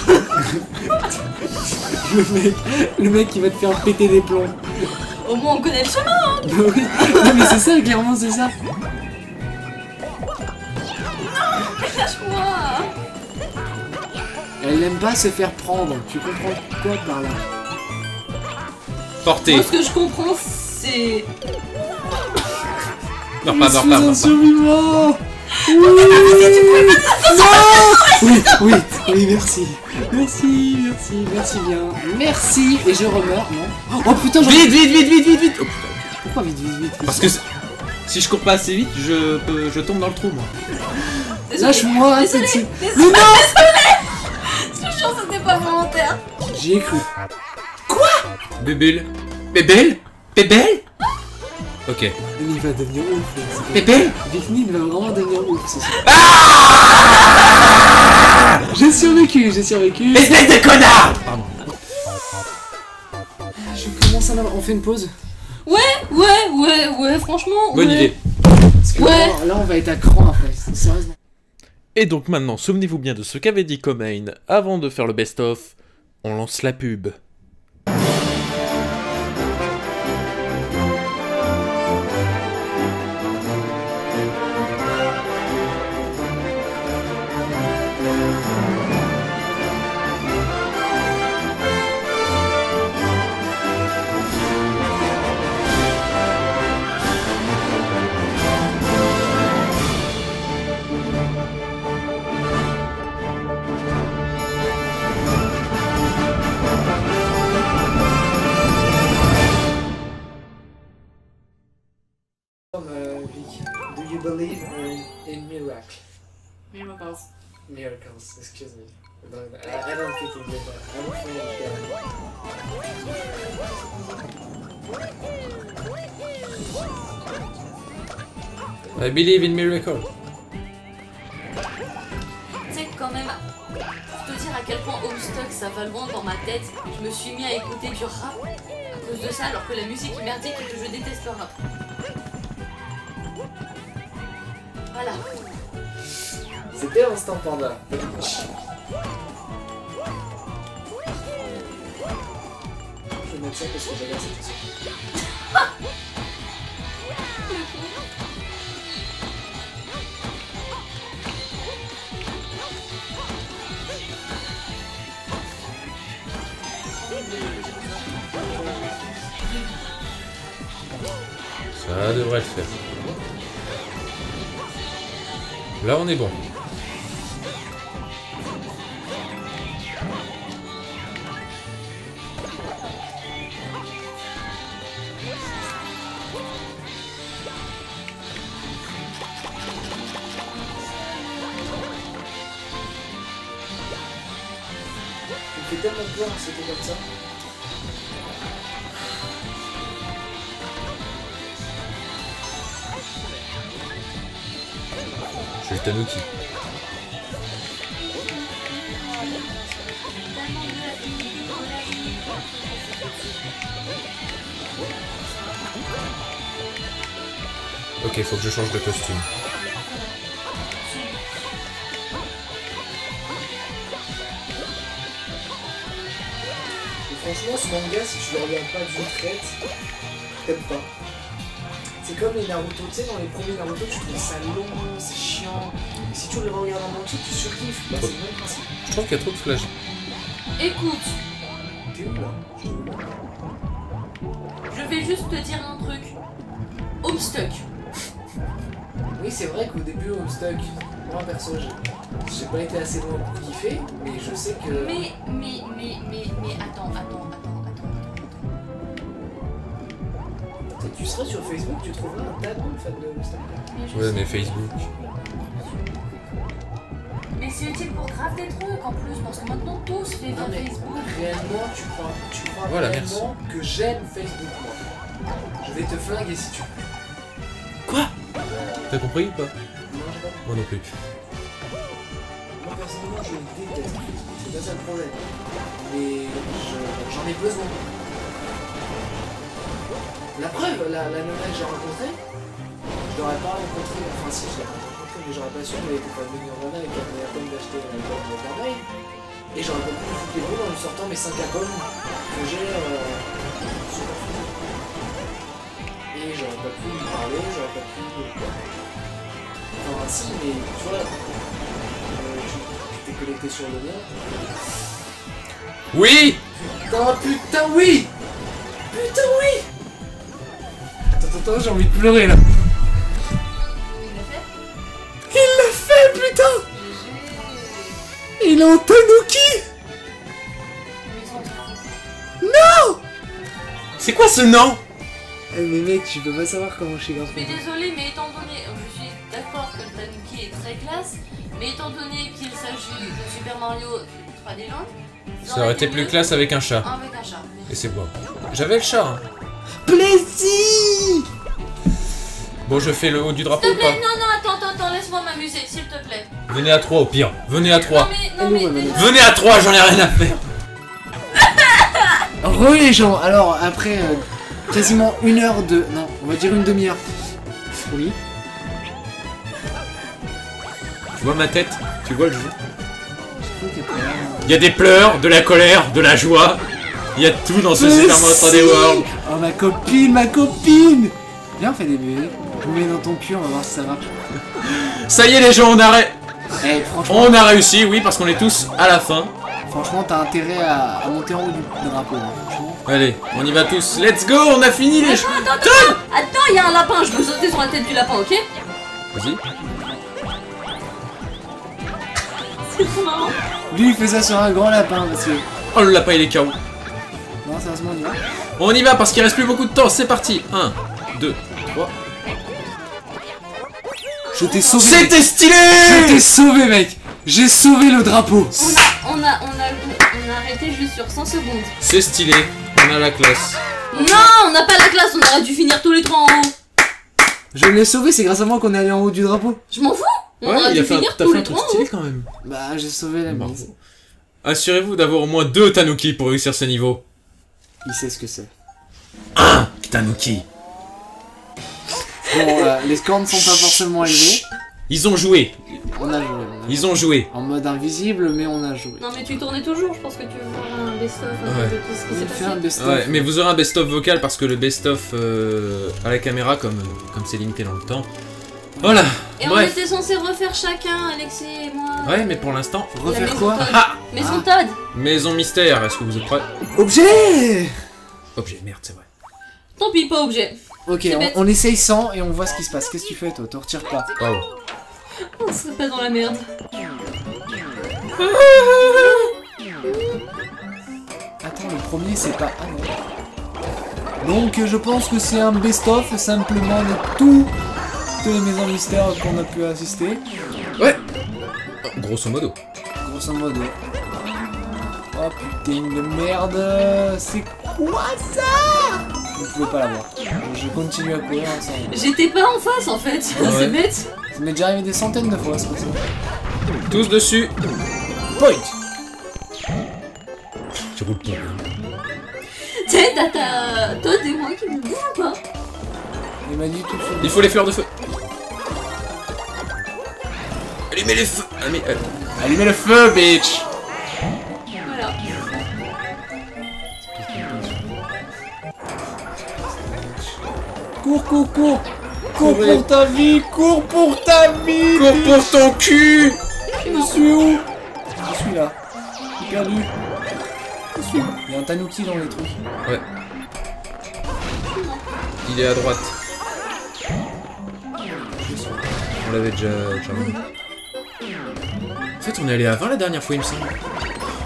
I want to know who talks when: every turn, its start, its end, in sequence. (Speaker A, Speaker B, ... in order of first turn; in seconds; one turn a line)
Speaker A: 0.3-4.9
Speaker B: 4.9-7.4
Speaker A: 6.4-8.5
Speaker B: 11.8-12.9
Speaker A: 14.6-17.4
Speaker C: 19.2-19.7
Speaker B: 19.4-21.3
Speaker C: 23.4-24.3
Speaker A: 23.4-34.8
Speaker B: 25.6-28.6
Speaker C: 34.3-36.1
Speaker A: 36.2-37.4
Speaker C: 37.0-37.4
Speaker C: 38.1-40.5
Speaker B: 41.5-46.2
Speaker A: 41.5-43.5
Speaker A: 46.4-47.1
Speaker A: 47.9-48.2
Speaker C: 48.6-50.8
Speaker C: 51.9-52.1
Speaker A: 52.4-56.1
Speaker C: 53.7-54.1
Speaker C: 56.0-58.6
Speaker A: 58.7-60.4
Speaker C: 60.1-61.7
Speaker A: 63.6-65.1
Speaker B: 65.7-68.1
Speaker C: 67.7-68.2
Speaker A: 68.8-71.2
Speaker B: 69.0-69.4
Speaker C: 71.9-77.2
Speaker A: 112.7-116.1
Speaker B: 116.7-117.2
Speaker A: 117.7-122.1
Speaker B: 123.6-124.2
Speaker C: 128.9-130.1
Speaker B: 132.7-133.4
Speaker B: 134.1-138.4
Speaker B: 138.9-141.6
Speaker B: 144.9-145.4
Speaker A: 146.7-148.5
Speaker A: 153.2-154.7
Speaker B: 157.4-157.9
Speaker B: 167.1-168.1
Speaker C: 171.8-172.7
Speaker C: 175.8-176.3
Speaker A: 195.5-197.0
Speaker C: 205.6-206.2
Speaker B: 209.3-213.4
Speaker C: 218.0-219.3
Speaker B: 219.6-220.2
Speaker B: 220.7-221.3
Speaker A: 227.1-229.6
Speaker A: 230.4-230.9
Speaker A: 232.0-238.7
Speaker C: 238.9-239.7
Speaker B: 240.6-241.2
Speaker A: 241.9-243.2
Speaker B: 244.7-246.1
Speaker B: 247.0-247.6
Speaker A: 249.1-255.0
Speaker B: 254.7-258.5
Speaker A: 260.7-263.7
Speaker B: 263.7-266.5
Speaker C: 263.9-264.7
Speaker B: 267.4-271.4
Speaker A: 270.3-274.8
Speaker C: 272.6-273.2
Speaker A: 275.6-276.8
Speaker C: 278.9-279.5
Speaker A: 279.9-280.5
Speaker C: 280.4-280.8
Speaker A: 282.6-287.8
Speaker A: 290.3-292.2
Speaker A: 293.0-298.9
Speaker A: 299.5-304.9
Speaker A: 306.1-308.6
Speaker A: 309.8-311.4
Speaker A: 312.1-314.4
Speaker C: 315.9-316.4
Speaker A: 316.7-318.1
Speaker A: 318.9-319.7
Speaker A: 321.1-322.6
Speaker B: 324.0-324.5
Speaker A: 325.3-326.6
Speaker B: 326.7-328.0
Speaker A: 328.4-329.7
Speaker B: 331.0-332.0
Speaker A: 332.4-333.0
Speaker C: 334.0-334.8
Speaker A: 335.5-337.6
Speaker B: 337.3-347.8
Speaker C: 345.4-346.9
Speaker C: 347.7-349.2
Speaker A: 349.8-351.2
Speaker C: 352.6-354.0
Speaker B: 353.6-356.3
Speaker C: 356.5-358.1
Speaker B: 357.8-359.1
Speaker A: 358.4-359.1
Speaker C: 358.9-360.4
Speaker A: 362.4-367.2
Speaker A: 367.8-368.2
Speaker C: 371.1-372.5
Speaker A: 373.4-374.6
Speaker C: 374.4-376.6
Speaker C: 377.1-379.0
Speaker A: 377.7-384.1
Speaker C: 384.5-386.1
Speaker A: 386.6-387.4
Speaker C: 387.1-389.3
Speaker A: 389.7-392.8
Speaker C: 392.9-396.0
Speaker B: 395.0-398.4
Speaker C: 399.1-399.4
Speaker A: 399.6-400.0
Speaker B: 402.6-403.4
Speaker A: 403.7-405.4
Speaker C: 405.7-406.6
Speaker A: 407.4-408.2
Speaker C: 408.6-411.9
Speaker A: 414.3-418.8
Speaker B: 414.4-414.8
Speaker C: 414.6-416.2
Speaker B: 418.6-421.7
Speaker C: 421.8-423.6
Speaker B: 423.9-426.5
Speaker A: 423.9-424.3
Speaker A: 427.5-429.6
Speaker B: 429.7-431.9
Speaker C: 430.4-432.3
Speaker A: 432.4-433.7
Speaker C: 433.3-433.7
Speaker C: 434.4-437.0
Speaker A: 437.8-438.5
Speaker C: 439.3-440.4
Speaker A: 442.2-444.4
Speaker C: 443.3-445.8
Speaker A: 445.9-449.0
Speaker C: 446.7-447.3
Speaker B: 449.0-452.6
Speaker C: 451.4-451.8
Speaker A: 452.1-453.3
Speaker C: 452.8-458.1
Speaker C: 458.8-459.8
Speaker B: 459.4-462.2
Speaker C: 462.0-464.0
Speaker A: 462.9-464.5
Speaker B: 463.0-464.8
Speaker C: 464.9-466.4
Speaker A: 466.8-467.8
Speaker C: 468.3-469.0
Speaker B: 469.8-471.4
Speaker A: 470.9-474.1
Speaker C: 474.2-474.4
Speaker B: 475.2-476.4
Speaker C: 478.2-479.2
Speaker B: 478.8-479.3
Speaker B: 479.8-480.2
Speaker A: 481.4-482.9
Speaker A: 484.2-487.5
Speaker A: 488.2-490.2
Speaker C: 491.8-492.6
Speaker A: 493.0-493.8
Speaker A: 495.1-502.0
Speaker B: 501.9-504.1
Speaker C: 503.4-503.8
Speaker A: 504.3-506.1
Speaker C: 506.9-507.5
Speaker A: 508.3-508.7
Speaker C: 510.9-511.6
Speaker B: 512.8-515.4
Speaker A: 516.5-517.4
Speaker C: 517.2-517.9
Speaker C: 520.9-522.0
Speaker A: 522.4-523.6
Speaker B: 524.8-525.2
Speaker A: 525.3-525.7
Speaker A: 527.1-527.9
Speaker A: 529.4-530.4
Speaker A: 531.0-535.5
Speaker C: 532.3-532.8
Speaker C: 534.9-536.4
Speaker B: 536.8-537.2
Speaker A: 536.8-537.7
Speaker A: 538.2-538.8
Speaker A: 539.4-539.9
Speaker A: 541.4-542.6
Speaker B: 544.6-545.0
Speaker C: 545.4-546.1
Speaker A: 548.3-548.9
Speaker C: 549.2-550.4
Speaker B: 550.1-550.5
Speaker C: 552.2-553.8